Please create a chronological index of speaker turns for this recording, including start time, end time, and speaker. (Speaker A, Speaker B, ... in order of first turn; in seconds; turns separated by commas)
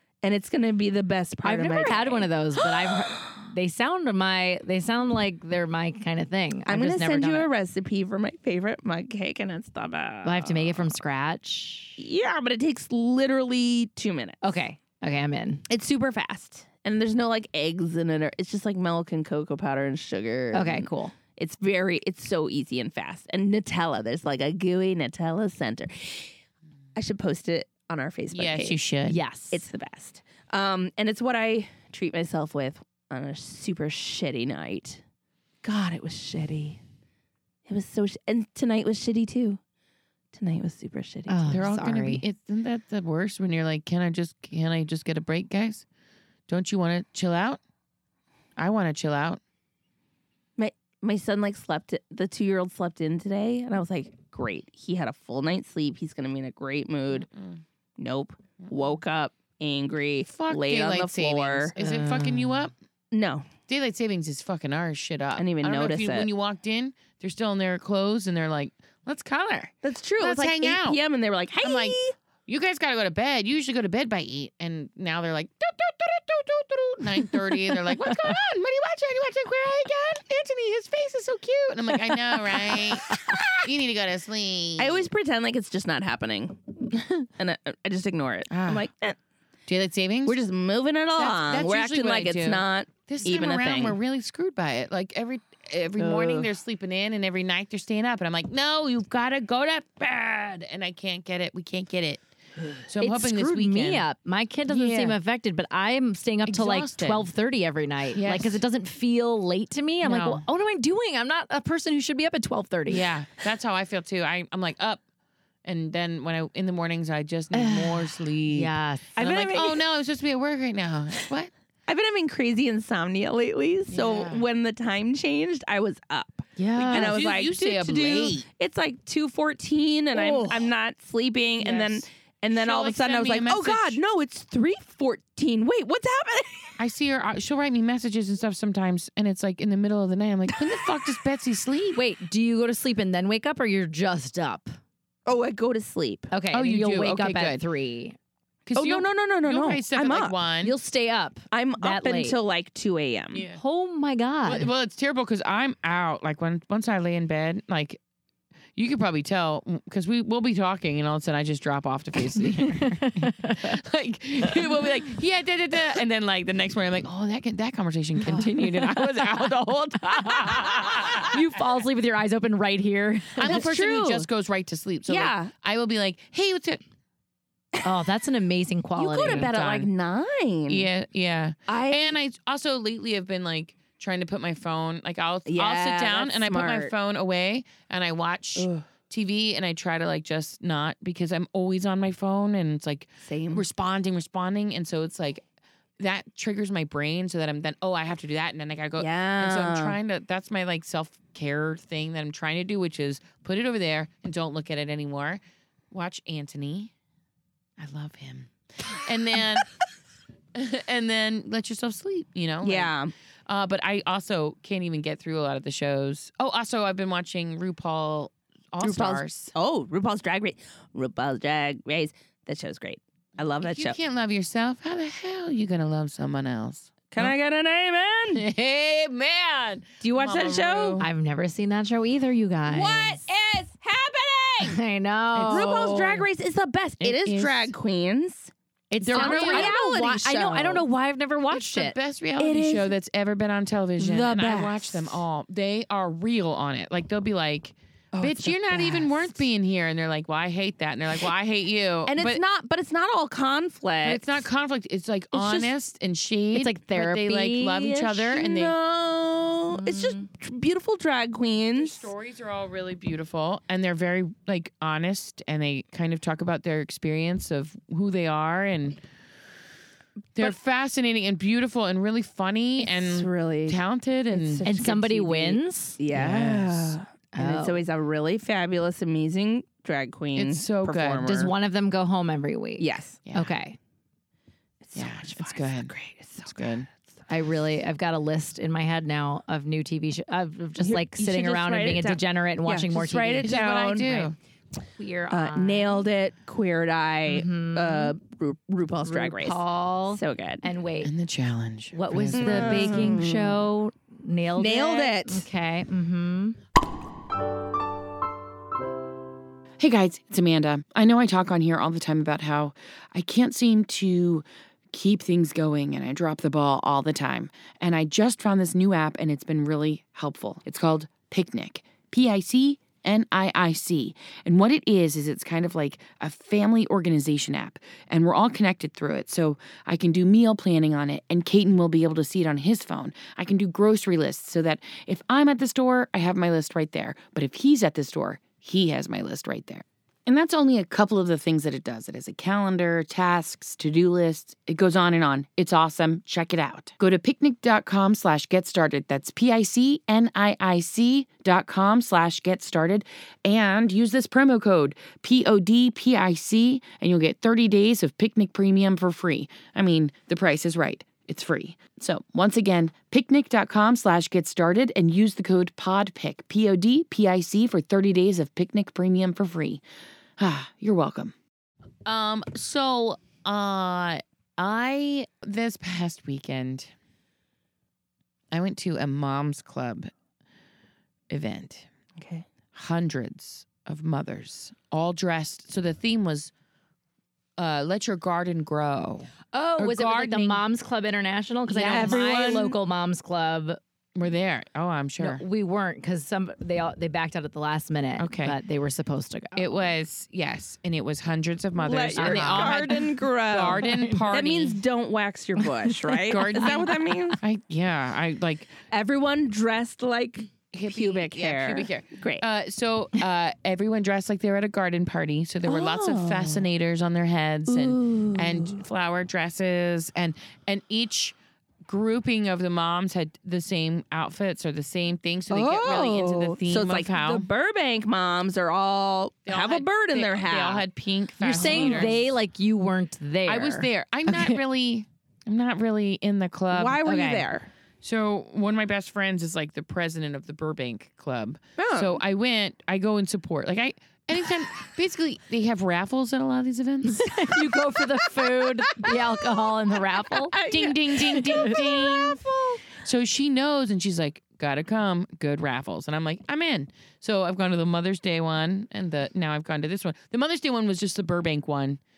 Speaker A: 0.2-2.3, Speaker B: 1.4-7.5, Speaker A: 6.7-10.9, Speaker B: 10.2-12.0, Speaker A: 12.0-14.5, Speaker B: 14.4-15.6, Speaker A: 15.7-26.3, Speaker B: 20.5-21.1, Speaker A: 26.9-28.8, Speaker C: 28.3-29.2, Speaker B: 29.1-29.6, Speaker A: 29.5-35.0, Speaker A: 35.6-36.8, Speaker A: 37.6-39.6, Speaker A: 40.3-41.6, Speaker B: 41.3-42.2, Speaker C: 41.5-45.9, Speaker C: 46.5-47.6, Speaker C: 48.6-49.4, Speaker A: 50.6-57.3, Speaker C: 57.2-57.6, Speaker A: 58.0-61.7, Speaker C: 60.2-62.7, Speaker B: 61.8-62.7, Speaker A: 63.1-63.5, Speaker C: 63.7-71.0, Speaker A: 65.3-66.3, Speaker A: 69.8-72.2, Speaker C: 71.6-85.0, Speaker A: 84.8-89.2, Speaker C: 88.5-88.8, Speaker C: 89.7-90.4, Speaker A: 90.2-94.0, Speaker C: 91.2-102.2, Speaker A: 96.0-96.5, Speaker C: 102.9-104.0, Speaker B: 103.0-113.1, Speaker C: 104.7-105.2, Speaker C: 106.5-107.3, Speaker C: 108.1-108.6, Speaker C: 110.0-110.4, Speaker C: 112.9-115.0, Speaker C: 115.6-121.5, Speaker B: 117.5-119.1, Speaker A: 119.2-119.8, Speaker A: 121.9-136.8, Speaker C: 123.9-124.4, Speaker B: 126.6-127.2, Speaker C: 126.8-128.5, Speaker B: 130.1-130.7, Speaker C: 131.6-134.0, Speaker C: 136.8-142.0, Speaker B: 141.9-144.7, Speaker A: 145.2-146.3, Speaker B: 146.3-148.2, Speaker C: 146.5-147.6, Speaker C: 148.7-150.7, Speaker A: 148.8-150.4, Speaker B: 150.6-152.3, Speaker A: 151.5-153.4, Speaker C: 153.3-153.6, Speaker B: 153.5-154.7, Speaker C: 154.4-158.0, Speaker C: 158.7-171.4, Speaker B: 162.5-163.8, Speaker B: 168.3-169.0, Speaker B: 170.3-173.6, Speaker C: 173.4-176.8, Speaker A: 173.4-174.3, Speaker A: 175.1-175.5, Speaker B: 177.8-179.5, Speaker A: 178.9-180.9, Speaker C: 179.2-179.9, Speaker C: 180.7-195.4, Speaker A: 181.7-182.1, Speaker A: 185.4-186.9, Speaker A: 188.6-188.8, Speaker A: 193.2-193.7, Speaker C: 196.0-206.9, Speaker A: 199.0-200.0, Speaker C: 207.8-209.7, Speaker C: 210.5-212.9, Speaker A: 212.6-213.1, Speaker C: 213.5-219.5, Speaker A: 218.8-224.0, Speaker C: 223.6-227.3, Speaker A: 227.1-228.4, Speaker C: 228.3-231.1, Speaker A: 230.0-231.0, Speaker B: 231.0-233.2, Speaker A: 232.7-234.8, Speaker B: 234.6-236.2, Speaker C: 235.3-236.0, Speaker A: 235.5-238.5, Speaker C: 237.0-237.7, Speaker C: 238.9-239.7, Speaker B: 238.9-242.0, Speaker A: 239.1-240.8, Speaker C: 241.5-252.4, Speaker A: 242.4-242.9, Speaker A: 244.0-244.5, Speaker B: 244.0-244.9, Speaker A: 248.1-249.1, Speaker A: 252.1-254.4, Speaker C: 254.0-258.7, Speaker A: 255.3-255.7, Speaker B: 256.5-258.0, Speaker A: 257.9-262.1, Speaker B: 259.7-260.2, Speaker C: 261.8-269.0, Speaker C: 270.4-274.7, Speaker A: 272.8-273.8, Speaker A: 274.3-281.5, Speaker B: 274.6-276.0, Speaker C: 276.1-276.9, Speaker B: 277.3-277.8, Speaker C: 280.3-281.3, Speaker B: 281.2-283.8, Speaker A: 282.8-283.2, Speaker A: 284.8-286.7, Speaker C: 284.9-286.9, Speaker B: 287.3-293.5, Speaker A: 290.8-294.3, Speaker C: 293.4-294.3, Speaker B: 295.0-296.1, Speaker A: 295.3-299.6, Speaker B: 297.2-298.1, Speaker B: 299.0-301.1, Speaker A: 300.1-300.6, Speaker C: 301.0-303.1, Speaker B: 301.9-306.6, Speaker A: 302.3-303.6, Speaker A: 304.6-305.4, Speaker C: 309.8-369.8, Speaker C: 370.4-371.3, Speaker C: 372.0-376.9, Speaker C: 378.5-380.1, Speaker C: 381.3-381.9, Speaker A: 382.2-382.5, Speaker C: 382.7-386.5, Speaker C: 387.6-390.6, Speaker B: 389.5-393.8, Speaker C: 391.7-392.7, Speaker A: 391.8-392.7, Speaker C: 394.1-395.4, Speaker B: 395.2-399.9, Speaker C: 398.2-398.6, Speaker C: 399.5-404.8, Speaker A: 401.8-407.4, Speaker B: 402.2-403.1, Speaker B: 403.8-404.3, Speaker C: 406.2-408.7, Speaker A: 408.9-412.4, Speaker C: 410.7-427.5, Speaker A: 415.6-416.6, Speaker A: 417.7-418.8, Speaker A: 425.5-430.9, Speaker C: 429.4-432.3, Speaker B: 431.4-434.6, Speaker A: 431.4-432.2, Speaker C: 433.4-437.5, Speaker A: 436.7-437.7, Speaker C: 438.0-447.5, Speaker A: 441.8-442.2, Speaker B: 447.1-450.6, Speaker A: 450.3-452.8, Speaker C: 450.6-452.4, Speaker B: 451.5-451.8, Speaker C: 452.9-462.0